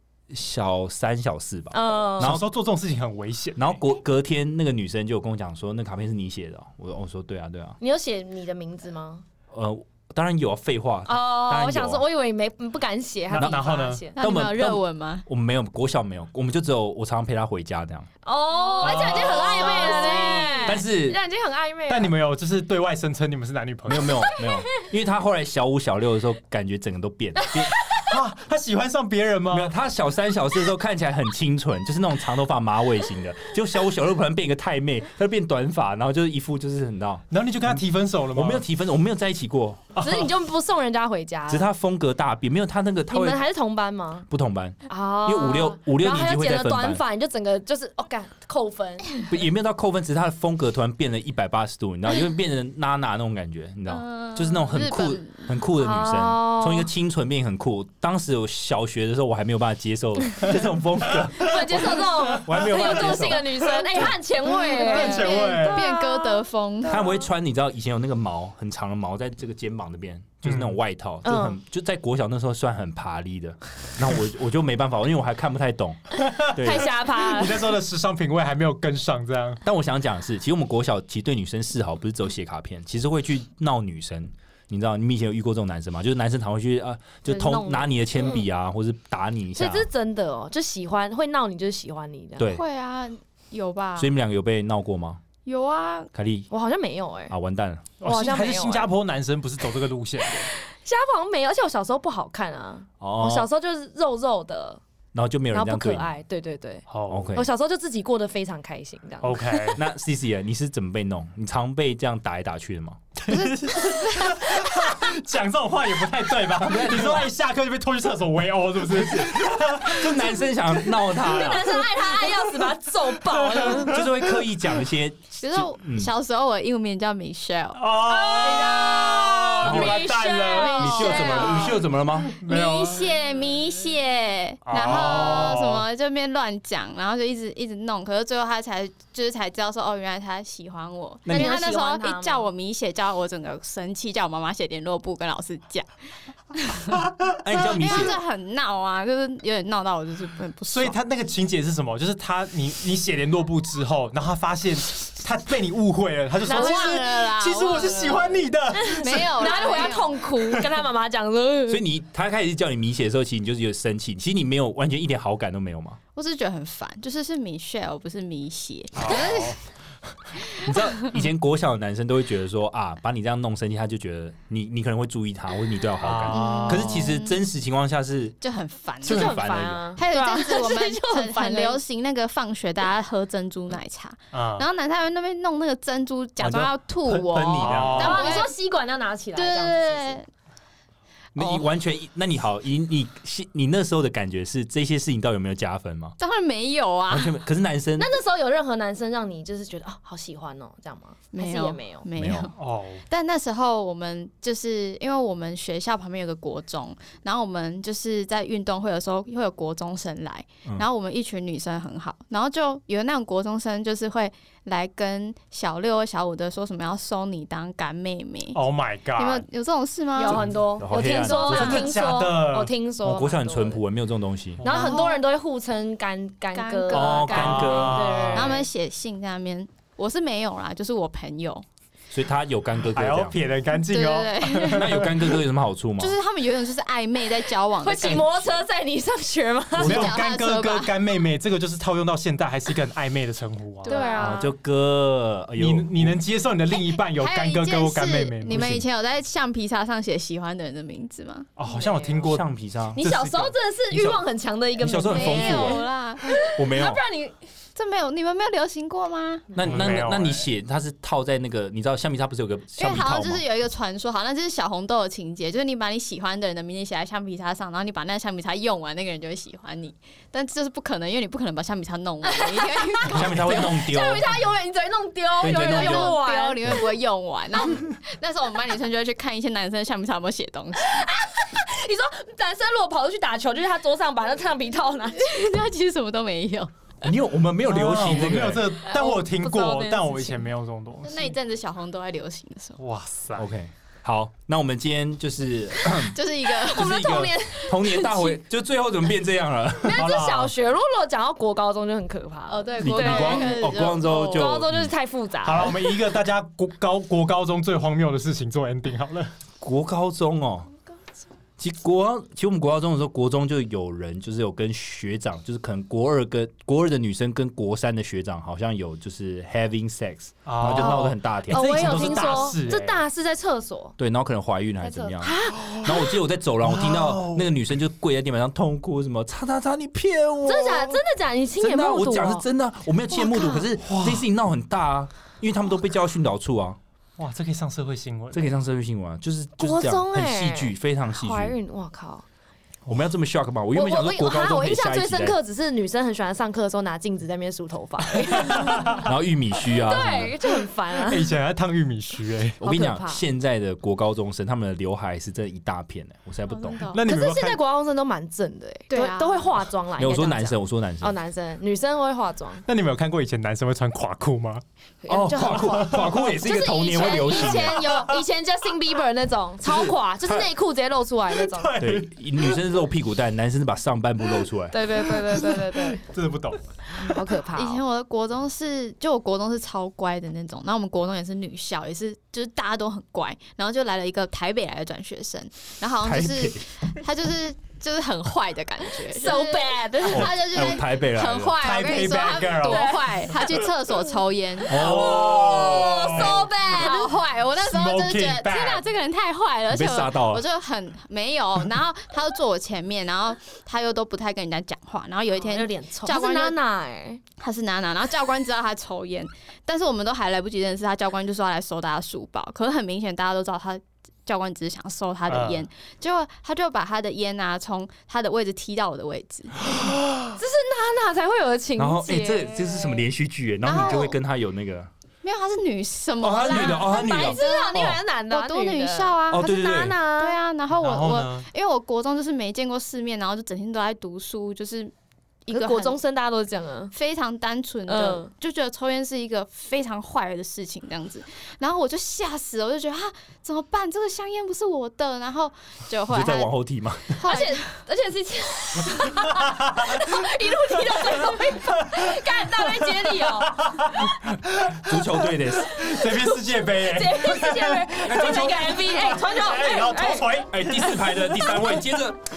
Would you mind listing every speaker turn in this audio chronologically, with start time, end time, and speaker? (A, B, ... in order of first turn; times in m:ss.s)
0:00.3-0:02.5 A
0:01.7-0:02.4 B
0:02.2-0:03.8 C
0:03.6-0:07.8 A
0:07.8-0:09.2 B
0:09.5-0:12.0 A
0:11.1-0:14.2 B
0:13.3-0:14.0 C
0:14.2-0:15.2 D
0:14.2-0:18.1 A
0:18.2-0:22.1 B
0:18.6-0:20.8 D
0:18.8-0:20.3 C
0:20.6-0:21.2 A
0:21.9-0:24.2 C
0:23.9-0:27.8 A
0:27.4-0:28.1 B
0:28.1-0:29.7 C
0:29.5-0:39.8 A
0:37.3-0:38.6 C
0:40.0-0:40.3 C
0:40.0-0:41.7 B
0:41.5-0:43.5 A
0:43.1-0:44.3 B
0:44.3-0:47.0 A
0:44.9-0:49.2 B
0:49.3-1:01.8 A
0:53.9-0:55.5 D
0:55.8-0:56.9 B
1:01.0-1:05.9 C
1:01.4-1:07.2 B
1:04.8-1:07.0 D
1:06.9-1:16.9 A
1:10.4-1:10.8 C
1:11.2-1:11.6 B
1:16.3-1:19.6 C
1:16.4-1:17.8 B
1:19.6-1:29.9 A
1:27.3-1:28.4 B
1:29.6-1:32.5 B
1:32.4-1:32.6 A
1:32.4-1:34.1 D
1:34.0-1:35.2 A
1:35.4-1:36.1 D
1:36.1-1:36.5 A
1:36.5-1:37.3 B
1:37.3-1:37.9 A
1:38.0-1:40.5 C
1:38.0-1:38.9 B
1:40.5-1:44.8 B
1:43.0-1:43.5 A
1:45.1-1:46.1 A
1:45.5-1:49.7 B
1:46.9-1:47.3 C
1:47.1-1:47.5 A
1:49.2-1:49.8 C
1:49.8-1:53.0 A
1:53.2-2:01.8 C
1:56.5-1:57.3 A
1:58.9-2:01.9 A
2:01.1-2:04.0 B
2:03.3-2:04.4 C
2:03.8-2:06.1 A
2:05.4-2:09.3 D
2:07.8-2:11.5 C
2:08.1-2:11.7 B
2:09.6-2:10.0 A
2:10.5-2:11.8 D
2:10.8-2:12.4 A
2:12.3-2:13.2 C
2:12.4-2:25.9 D
2:14.7-2:15.8 C
2:21.2-2:21.6 A
2:21.3-2:22.5 B
2:26.5-2:31.0 D
2:27.4-2:28.2 A
2:30.7-2:39.9 C
2:36.5-2:37.0 B
2:36.5-2:40.2 D
2:38.8-2:41.8 B
2:41.7-2:46.0 A
2:46.2-2:49.6 D
2:49.0-2:49.6 C
2:50.6-2:58.4 A
2:56.0-2:57.1 C
2:56.3-2:57.5 D
2:58.4-2:59.4 D
2:59.0-2:59.9 A
2:59.0-3:01.8 B
3:00.0-3:08.5 D
3:04.3-3:04.7 C
3:06.4-3:08.3 A
3:07.6-3:08.5 C
3:08.0-3:10.2 B
3:09.4-3:10.3 D
3:11.4-3:16.1 A
3:16.2-3:17.4 D
3:17.1-3:18.1 A
3:18.0-3:22.1 B
3:21.3-3:22.6 D
3:22.2-3:22.5 A
3:22.6-3:23.0 C
3:23.1-3:38.6 D
3:38.5-3:39.5 C
3:39.2-3:40.4 D
3:40.2-3:43.8 B
3:40.2-3:40.5 C
3:40.8-3:42.0 A
3:41.2-3:41.8 D
3:41.3-3:42.7 C
3:43.0-3:44.6 A
3:44.6-3:45.0 C
3:44.6-3:48.7 B
3:44.7-3:45.2 D
3:46.5-3:51.6 D
3:46.9-3:48.5 A
3:47.3-3:48.6 C
3:52.1-3:53.4 A
3:52.9-3:55.3 C
3:53.8-3:55.2 D
3:54.7-3:56.2 A
3:56.0-3:58.5 D
3:57.8-4:00.1 B
3:58.0-3:58.3 C
3:59.8-4:01.0 D
3:59.8-4:04.0 C
4:03.8-4:04.2 D
4:03.8-4:04.5 B
4:04.2-4:06.2 A
4:05.6-4:08.7 C
4:06.7-4:11.5 D
4:08.5-4:08.8 A
4:11.6-4:12.5 C
4:11.7-4:12.3 B
4:12.2-4:14.2 A
4:13.0-4:17.3 B
4:13.0-4:13.5 C
4:14.8-4:15.9 A
4:15.1-4:16.4 D
4:16.5-4:17.0 A
4:17.8-4:19.5 D
4:19.5-4:23.4 A
4:19.6-4:20.5 C
4:22.8-4:33.7 D
4:32.2-4:36.6 B
4:33.1-4:34.4 A
4:35.4-4:36.2 A
4:35.4-4:41.1 D
4:40.8-4:45.3 B
4:45.2-4:46.7 D
4:47.0-4:48.7 A
4:47.7-4:51.2 C
4:48.9-4:50.5 B
4:51.0-4:52.8 D
4:52.8-4:53.5 C
4:53.4-5:00.0 A
4:56.0-4:57.2 D
4:56.6-4:58.4 B
4:59.8-5:03.6 B
4:59.9-5:00.5 C
5:02.5-5:04.7 D
5:02.8-5:04.9 A
5:04.3-5:05.9 B
5:05.4-5:09.3 C
5:09.6-5:10.7 A
5:11.6-5:22.5 A
5:20.4-5:23.0 C
5:21.5-5:24.0 B
5:24.0-5:31.0 A
5:24.8-5:26.0 B
5:25.6-5:26.0 C
5:26.6-5:27.5 C
5:30.4-5:32.5 B
5:31.6-5:36.8 A
5:33.1-5:33.7 D
5:33.8-5:34.3 C
5:37.2-5:38.5 C
5:38.3-5:41.6 A
5:39.6-5:42.2 B
5:42.9-5:45.4 A
5:43.7-5:49.1 B
5:48.3-5:49.0 C
5:49.0-5:50.4 A
5:49.7-5:51.3 B
5:51.0-5:52.6 C
5:52.6-5:56.9 A
5:52.6-5:53.2 B
5:56.5-5:57.0 D
5:56.9-5:57.6 C
5:57.1-6:02.6 B
5:58.9-5:59.5 D
6:00.0-6:01.2 A
6:02.7-6:04.6 C
6:05.0-6:11.8 B
6:05.1-6:07.9 A
6:05.5-6:06.2 C
6:07.9-6:08.2 C
6:09.6-6:10.5 A
6:11.4-6:12.6 C
6:11.8-6:14.8 A
6:14.7-6:16.0 B
6:14.7-6:15.9 D
6:14.9-6:17.2 C
6:17.0-6:17.8 B
6:17.6-6:35.1 D
6:26.0-6:26.7 A
6:29.1-6:30.4 B
6:30.1-6:31.6 A
6:31.6-6:33.0 C
6:34.7-6:36.5 C
6:34.7-6:37.1 B
6:34.7-6:35.5 A
6:36.1-6:46.6 D
6:37.6-6:38.8 C
6:39.7-6:40.4 A
6:45.4-6:47.2 B
6:47.4-6:59.6 D
6:55.3-6:55.7 C
7:00.4-7:03.0 B
7:01.8-7:04.9 A
7:03.6-7:04.2 D
7:05.2-7:09.5 D
7:06.2-7:08.0 A
7:06.5-7:06.8 C
7:06.7-7:10.4 B
7:09.3-7:10.0 A
7:10.1-7:14.9 D
7:10.7-7:11.5 C
7:15.5-7:16.0 D
7:15.5-7:16.9 B
7:16.9-7:26.5 D
7:17.9-7:18.3 B
7:26.1-7:27.2 A
7:27.2-7:27.6 D
7:27.2-7:34.1 B
7:29.4-7:30.1 C
7:31.6-7:41.2 C
7:34.8-7:35.7 A
7:35.7-7:40.5 B
7:38.0-7:38.9 A
7:40.5-7:42.2 A